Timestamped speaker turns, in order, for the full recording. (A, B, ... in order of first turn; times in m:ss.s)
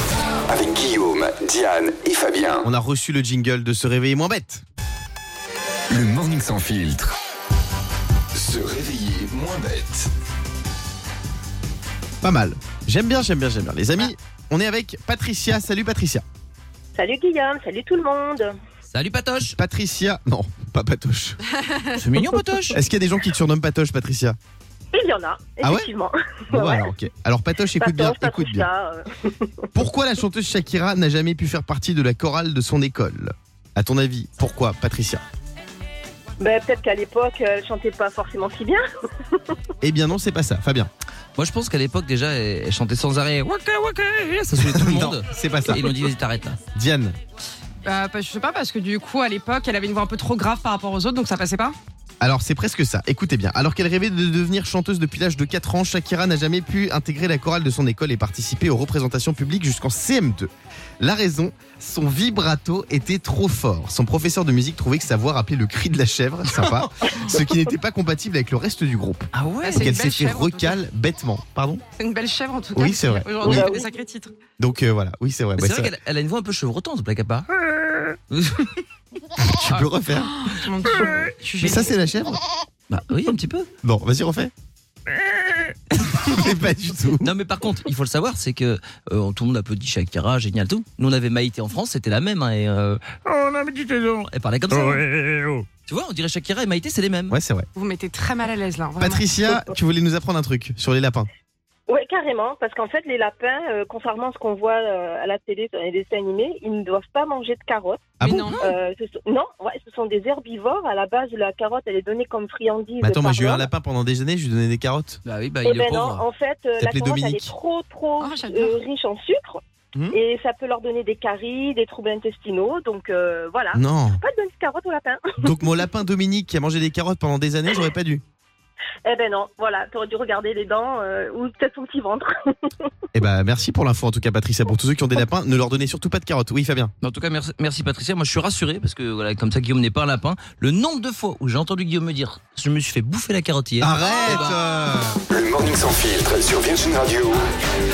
0:00.5-0:02.7 A
0:02.6-0:04.6 B
0:05.9-0:07.1 A
0:08.3-0:10.1 A
0:12.2-0:16.2 B
0:16.9-0:18.6 C
0:18.9-0:19.6 D
0:19.5-0:21.4 B
0:21.9-0:22.8 D
0:22.7-0:24.4 B
0:24.9-0:26.9 C
0:25.6-0:25.9 B
0:26.5-0:28.7 B
0:27.8-0:29.5 C
0:29.7-0:35.2 B
0:36.4-0:39.4 C
0:39.8-0:40.9 B
0:41.4-0:46.6 D
0:44.6-0:45.8 B
0:46.7-0:47.1 B
0:47.8-0:51.8 E
0:52.2-1:00.5 B
1:01.0-1:11.8 B
1:06.5-1:07.2 D
1:09.3-1:09.9 D
1:09.6-1:10.8 E
1:12.0-1:14.4 E
1:12.8-1:13.7 B
1:13.4-1:13.9 C
1:14.6-1:15.9 B
1:15.6-1:17.5 D
1:18.3-1:18.7 D
1:19.5-1:20.4 B
1:19.7-1:21.9 E
1:21.6-1:22.4 B
1:22.9-1:23.7 D
1:23.8-1:24.5 B
1:26.2-1:27.3 B
1:27.2-1:37.4 D
1:37.3-1:37.7 B
1:37.8-1:39.2 E
1:39.0-1:41.3 B
1:41.9-1:53.7 C
1:48.2-1:48.6 B
1:48.2-1:48.7 E
1:53.0-1:55.2 B
1:55.2-1:56.2 D
1:55.6-1:59.6 C
1:56.8-1:57.5 B
1:58.2-1:58.8 E
2:00.1-2:05.4 C
2:03.7-2:04.2 B
2:05.4-2:08.2 B
2:09.0-2:12.7 C
2:13.1-2:16.9 B
2:17.0-2:24.6 D
2:23.8-2:25.2 B
2:25.3-2:27.5 A